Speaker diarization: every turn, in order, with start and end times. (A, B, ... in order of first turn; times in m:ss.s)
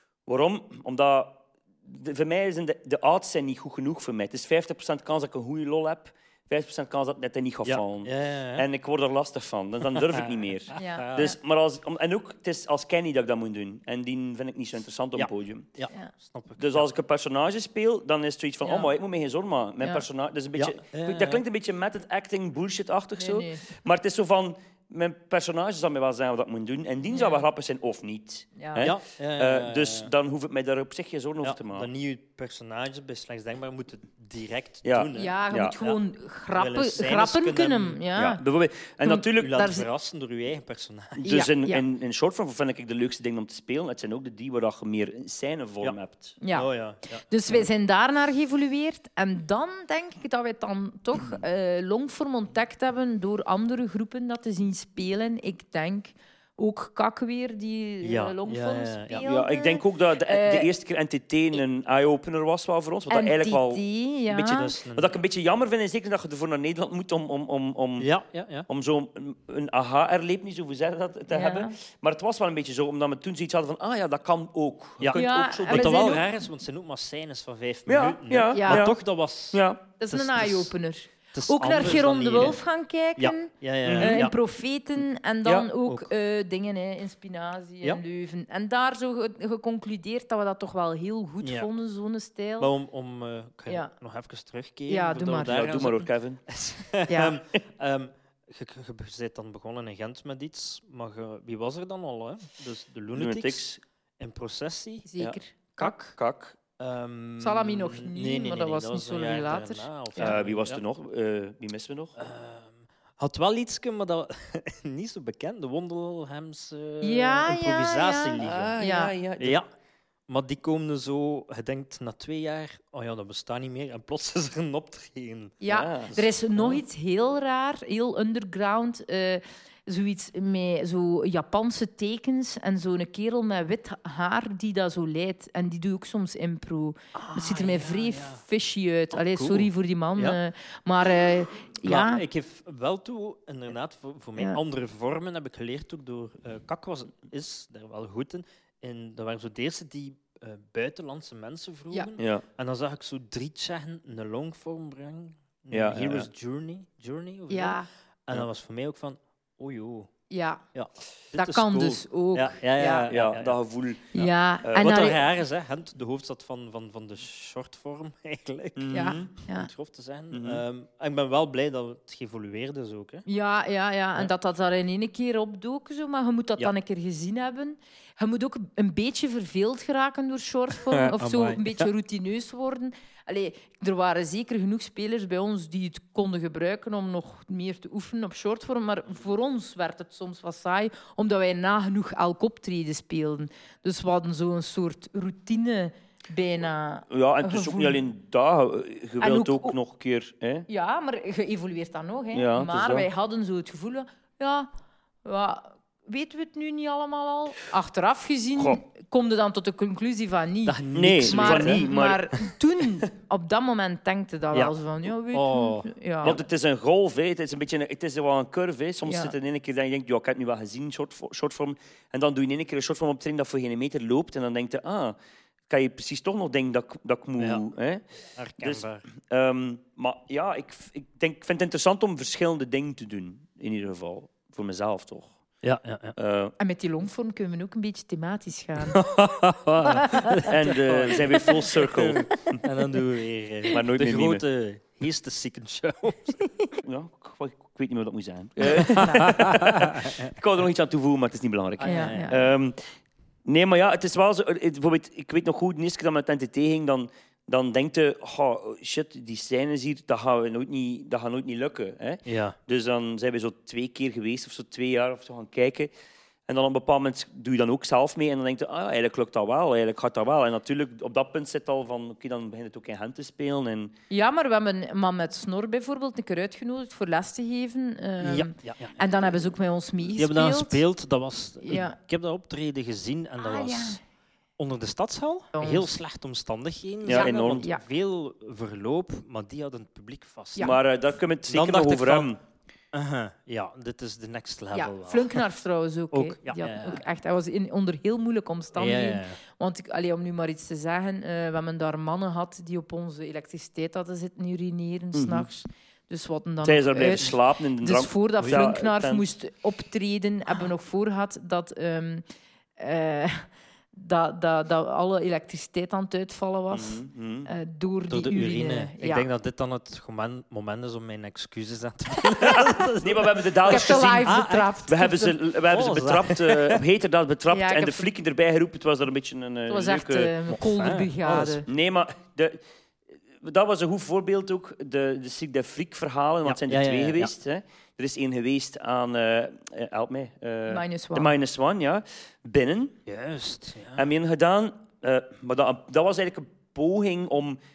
0:00.2-0:15.7 A
0:07.6-0:08.6 B
0:09.9-0:11.3 B
0:10.7-0:11.3 C
0:15.2-0:16.8 B
0:16.6-0:31.9 A
0:18.6-0:18.9 C
0:20.6-0:21.4 B
0:23.2-0:23.7 C
0:27.1-0:27.4 C
0:28.6-0:28.9 C
0:28.8-0:30.1 B
0:31.4-0:36.0 B
0:34.8-0:35.7 A
0:35.1-0:38.4 C
0:36.5-0:38.0 B
0:38.2-0:39.8 A
0:39.0-0:39.8 C
0:39.2-0:41.3 B
0:41.2-0:46.4 A
0:41.2-0:41.8 C
0:46.4-0:46.7 C
0:46.5-0:47.6 B
0:47.3-1:00.7 C
0:58.0-0:59.2 B
0:59.2-1:08.1 A
1:03.1-1:04.7 C
1:04.4-1:05.1 B
1:08.0-1:08.7 B
1:08.7-1:16.2 A
1:11.3-1:11.7 C
1:15.0-1:20.7 B
1:15.1-1:16.2 C
1:17.9-1:19.0 A
1:18.5-1:18.9 C
1:19.5-1:19.8 A
1:20.0-1:32.7 C
1:21.3-1:22.6 B
1:23.2-1:24.3 B
1:23.8-1:24.2 A
1:31.4-1:31.7 B
1:32.6-1:43.7 B
1:34.9-1:35.6 C
1:35.2-1:36.4 A
1:37.1-1:37.4 C
1:43.1-1:43.8 A
1:44.2-1:45.1 B
1:45.1-1:46.1 C
1:45.2-1:46.6 A
1:46.8-1:50.8 B
1:47.4-1:50.4 C
1:50.2-1:52.2 A
1:52.2-1:58.8 B
1:57.0-1:59.1 C
1:58.4-1:59.6 A
1:59.4-1:59.7 B
2:00.3-2:05.6 B
2:05.6-2:22.2 C
2:05.7-2:06.1 A
2:06.1-2:06.7 B
2:17.1-2:18.4 B
2:19.1-2:20.4 B
2:21.8-2:40.1 B
2:32.2-2:32.4 A
2:35.7-2:36.3 A
2:37.5-2:37.9 C
2:40.3-2:40.6 C
2:40.7-2:43.6 B
2:41.3-2:43.1 C
2:43.1-2:45.0 A
2:44.1-2:45.2 C
2:44.7-2:53.2 B
2:48.8-2:49.3 A
2:48.9-2:49.7 C
2:50.3-2:50.6 A
2:53.2-3:18.0 C
3:00.8-3:01.9 B
3:17.1-3:20.7 A
3:19.2-3:19.8 C
3:20.7-3:24.7 C
3:22.3-3:23.1 A
3:25.2-3:36.4 C
3:30.7-3:31.8 B
3:30.9-3:32.3 A
3:35.3-3:35.9 B
3:36.2-3:45.2 A
3:39.0-3:39.3 C
3:45.7-3:48.0 A
3:47.4-3:47.6 B
3:48.4-3:49.0 B
3:48.6-3:55.4 A
3:55.6-3:56.2 B
3:56.2-3:56.5 A
3:56.6-3:59.0 C
3:58.9-4:06.4 B
3:59.8-4:00.4 C
4:00.4-4:02.6 A
4:03.7-4:04.4 A
4:06.8-4:12.8 A
4:08.7-4:09.3 C
4:08.7-4:10.2 B
4:11.8-4:12.4 B
4:11.8-4:12.4 C
4:13.4-4:25.9 A
4:22.2-4:22.6 B
4:26.5-4:33.9 A
4:34.1-4:40.8 C
4:38.2-4:38.9 B
4:40.2-4:44.0 B
4:41.6-4:42.0 C
4:43.4-4:44.0 C
4:44.6-4:50.8 B
4:45.5-4:45.9 C
4:47.0-4:47.7 A
4:47.1-4:47.8 C
4:50.6-4:52.4 A
4:51.5-4:52.3 B
4:52.9-4:55.4 B
4:54.7-5:12.2 C
4:56.1-4:57.0 B
4:58.8-4:59.4 B
5:05.1-5:05.4 A
5:06.6-5:09.3 A
5:12.8-5:19.3 C
5:16.7-5:17.5 A
5:18.1-5:24.8 B
5:22.5-5:24.4 A
5:23.6-5:25.3 C
5:24.9-5:30.4 A
5:25.7-5:26.8 B
5:27.5-5:28.1 C
5:29.7-5:31.6 C
5:30.5-5:31.6 B
5:31.6-5:32.6 A
5:33.4-5:42.9 A
5:36.4-5:37.3 B
5:40.7-5:41.3 C
5:43.1-5:44.1 B
5:44.0-5:47.6 A